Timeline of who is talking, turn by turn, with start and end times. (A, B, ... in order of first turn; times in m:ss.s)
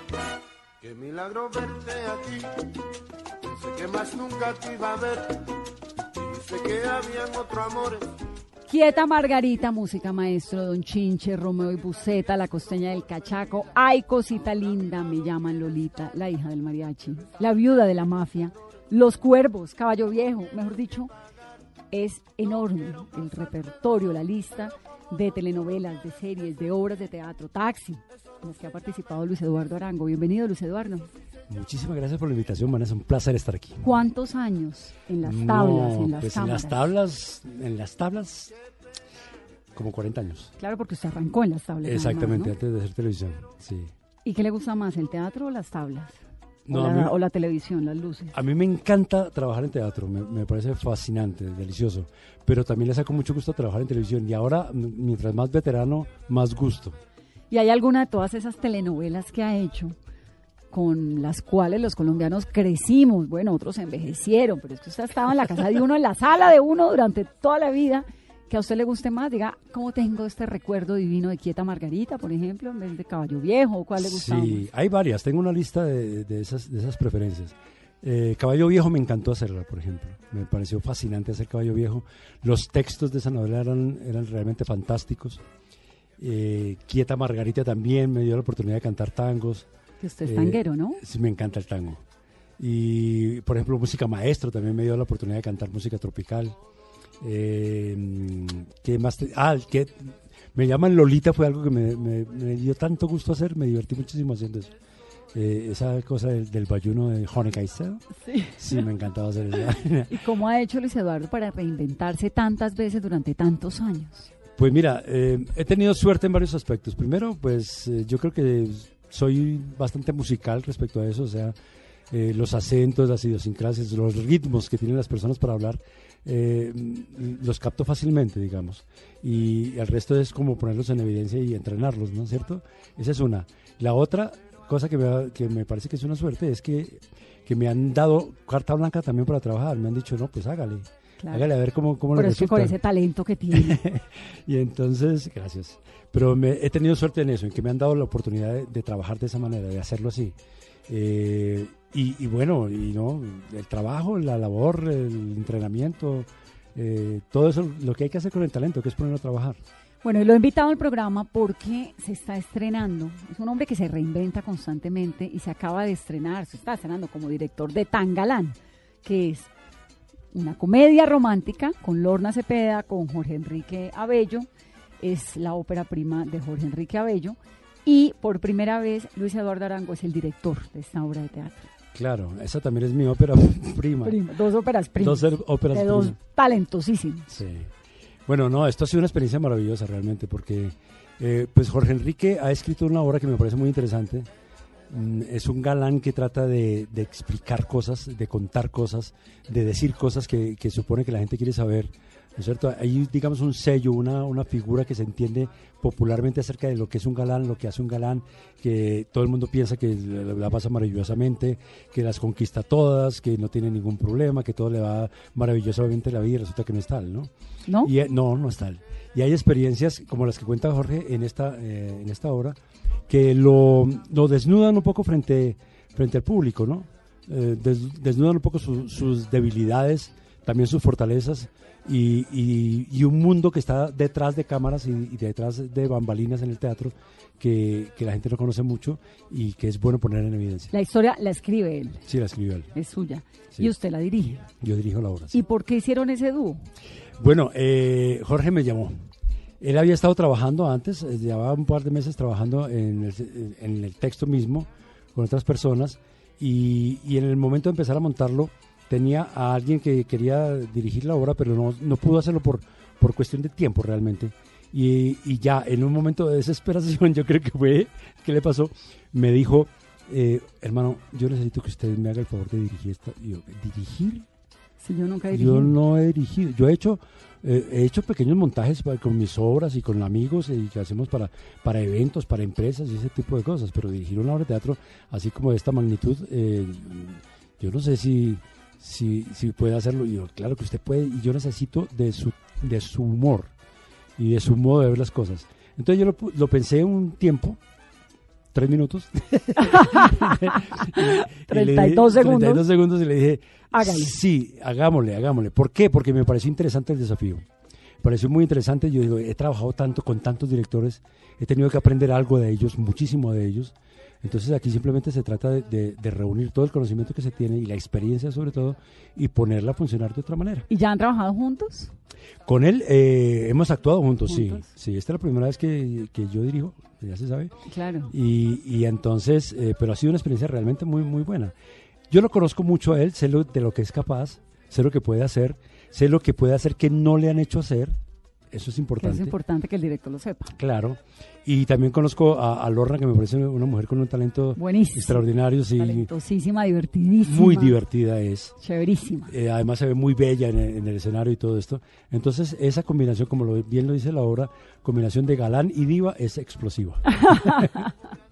0:00.8-0:02.6 A
0:03.4-0:05.5 A
0:06.1-0:08.0 A
0:08.7-0:21.1 B
0:21.9-0:31.1 B
0:31.5-0:33.8 C
0:33.8-0:36.8 B
0:35.2-0:38.5 C
0:39.7-0:40.5 C
0:40.6-0:42.5 B
0:41.8-0:43.9 C
0:44.2-0:48.3 B
0:46.7-0:47.2 C
0:48.3-0:57.0 C
0:57.5-0:59.9 B
1:00.7-1:14.6 B
1:14.0-1:25.4 C
1:26.2-1:29.7 C
1:30.0-1:31.0 B
1:30.2-1:32.0 C
1:32.6-1:36.6 C
1:37.2-1:44.7 C
1:45.3-1:50.2 C
1:48.2-1:48.8 B
1:50.1-1:54.3 B
1:54.6-2:01.5 C
2:02.1-2:22.8 C
2:21.2-2:21.4 B
2:22.1-2:23.8 B
2:23.5-2:30.4 C
2:30.9-2:39.6 C
2:40.0-2:49.5 B
2:50.3-2:54.5 B
2:55.0-3:01.7 B
3:01.9-3:04.2 C
3:04.0-3:07.3 B
3:05.0-3:06.2 C
3:07.3-3:07.7 C
3:08.2-3:14.3 C
3:14.9-3:42.6 C
3:37.7-3:37.9 B
3:43.1-4:00.7 C
4:00.7-4:02.0 B
4:02.0-4:02.7 C
4:02.7-4:04.5 B
4:04.5-4:05.4 C
4:05.3-4:06.7 B
4:07.2-4:09.1 C
4:09.6-4:34.3 C
4:34.8-4:35.7 B
4:35.3-4:53.5 C
4:54.2-4:57.6 C
4:58.5-5:07.5 C
4:59.6-5:02.6 B
5:03.7-5:04.1 B
5:08.0-5:20.6 C
5:20.7-5:21.9 B
5:22.4-5:27.5 C
5:24.3-5:24.7 B
5:27.7-5:28.1 B
5:28.1-5:31.5 C
5:32.1-5:38.0 C
5:38.5-5:39.3 C
5:39.0-5:40.6 B
5:40.5-5:46.1 C
5:44.6-5:47.8 B
5:47.2-5:48.6 C
5:48.6-5:49.3 B
5:49.3-5:57.7 C
5:57.1-5:57.9 B